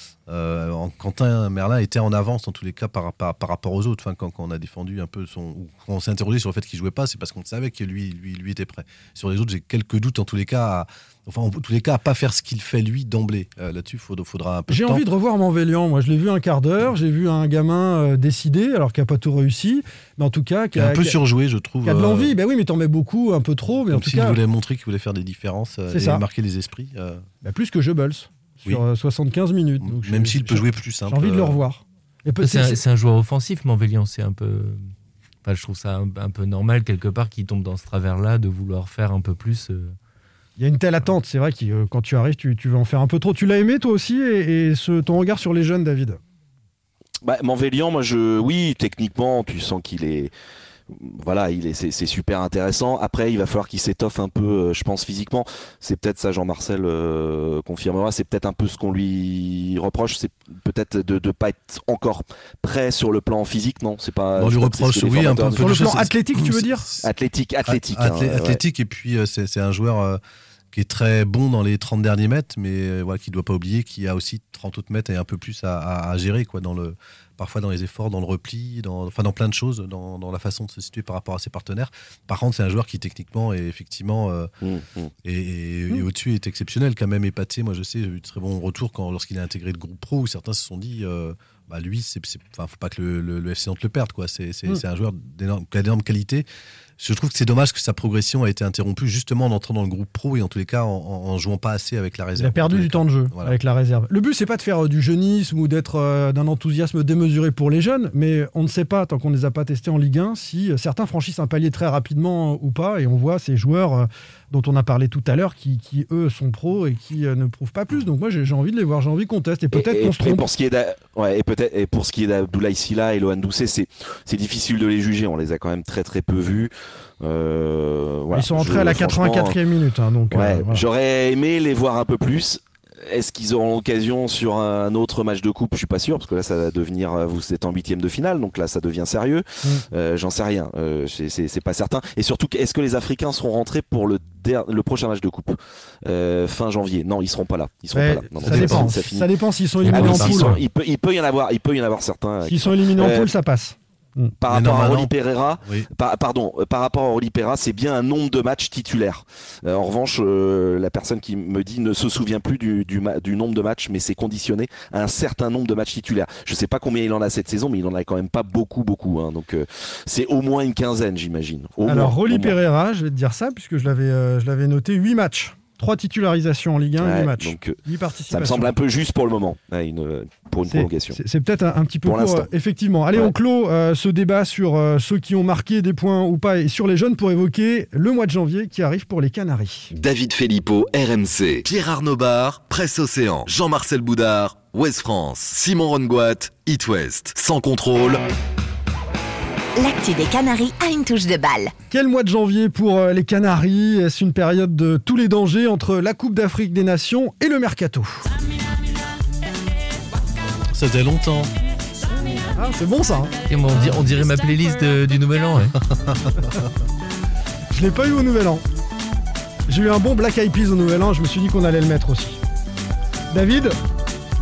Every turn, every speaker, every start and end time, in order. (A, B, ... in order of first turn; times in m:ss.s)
0:00.3-0:15.0 A
0:14.7-0:21.2 B
0:20.8-0:22.4 A
0:21.8-0:24.4 B
0:23.9-0:27.3 A
0:25.9-0:26.2 B
0:27.4-0:32.8 B
0:29.8-0:31.6 A
0:32.4-0:34.9 C
0:35.4-0:40.0 C
0:40.6-0:46.2 B
0:47.2-0:50.3 D
0:50.9-1:05.8 D
1:04.4-1:07.1 A
1:05.6-1:06.9 B
1:07.0-1:08.6 D
1:07.7-1:10.2 A
1:10.7-1:24.5 A
1:24.6-1:25.1 D
1:25.2-1:36.5 A
1:37.0-1:43.6 A
1:42.4-2:00.4 B
1:59.7-2:09.6 D
2:08.3-2:10.8 B
2:10.3-2:29.3 D
2:28.0-2:30.6 B
2:28.5-2:28.9 C
2:29.9-2:33.3 D
2:29.9-2:30.6 C
2:32.4-2:34.3 B
2:34.4-2:52.6 D
2:34.5-2:35.1 A
2:51.9-2:58.7 B
2:57.0-2:57.8 D
2:58.3-3:01.2 D
3:00.7-3:09.9 B
3:02.0-3:02.5 D
3:09.9-3:18.2 E
3:19.8-3:21.7 F
3:21.9-3:28.2 B
3:30.7-3:31.5 A
3:32.5-3:33.4 B
3:33.5-3:35.8 C
3:33.7-3:34.3 A
3:35.8-3:36.6 A
3:37.7-3:38.6 B
3:39.7-3:42.4 B
3:43.3-3:43.8 B